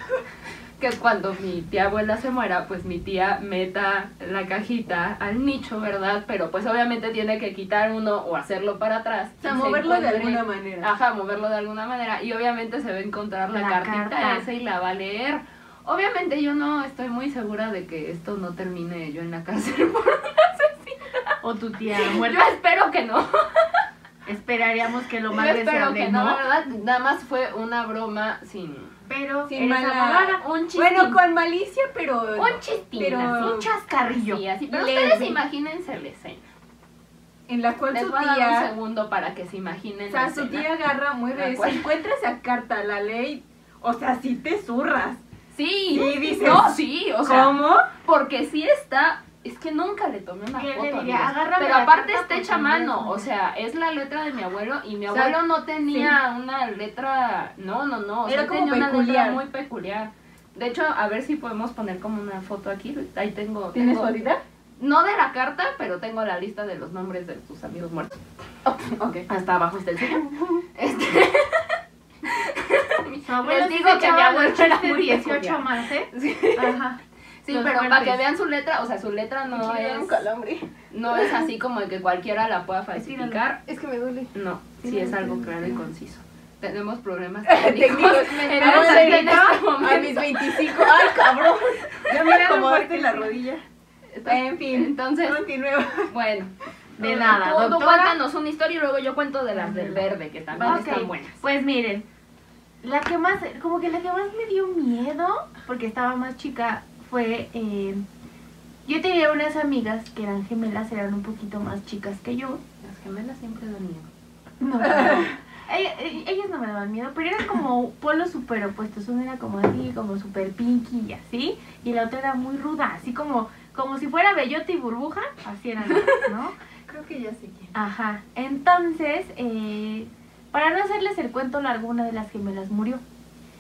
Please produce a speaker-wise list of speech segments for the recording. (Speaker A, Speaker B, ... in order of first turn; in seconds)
Speaker A: 0.8-21.4, 21.9-23.9, 25.3-29.0, 30.2-31.2, 32.4-36.4, 37.9-40.7, 41.3-41.9, 45.5-64.3, 64.8-68.2, 70.8-76.8, 77.4-80.3, 80.9-83.6, 84.3-92.0, 94.1-95.4, 96.1-101.4, 112.8-114.1
Speaker B: 9.4-10.9, 29.5-33.7, 37.5-38.7, 40.1-45.2, 45.9-47.9, 55.1-55.4, 58.3-59.4, 63.7-64.4, 68.7-69.3, 70.0-70.5, 79.5-81.5, 83.6-84.3, 87.5-93.6, 94.2-96.1, 100.5-100.9, 114.8-115.4, 126.9-127.7
Speaker C: 13.5-14.4, 21.4-22.5, 24.3-26.4, 29.1-30.4, 33.4-35.4, 50.5-53.3, 69.3-70.2, 73.3-78.2, 83.0-83.4, 84.8-85.8, 88.1-89.7, 92.1-93.3, 97.0-98.2, 99.6-100.0, 100.6-102.0, 102.8-108.0, 108.9-112.6, 114.6-126.5, 127.7-133.0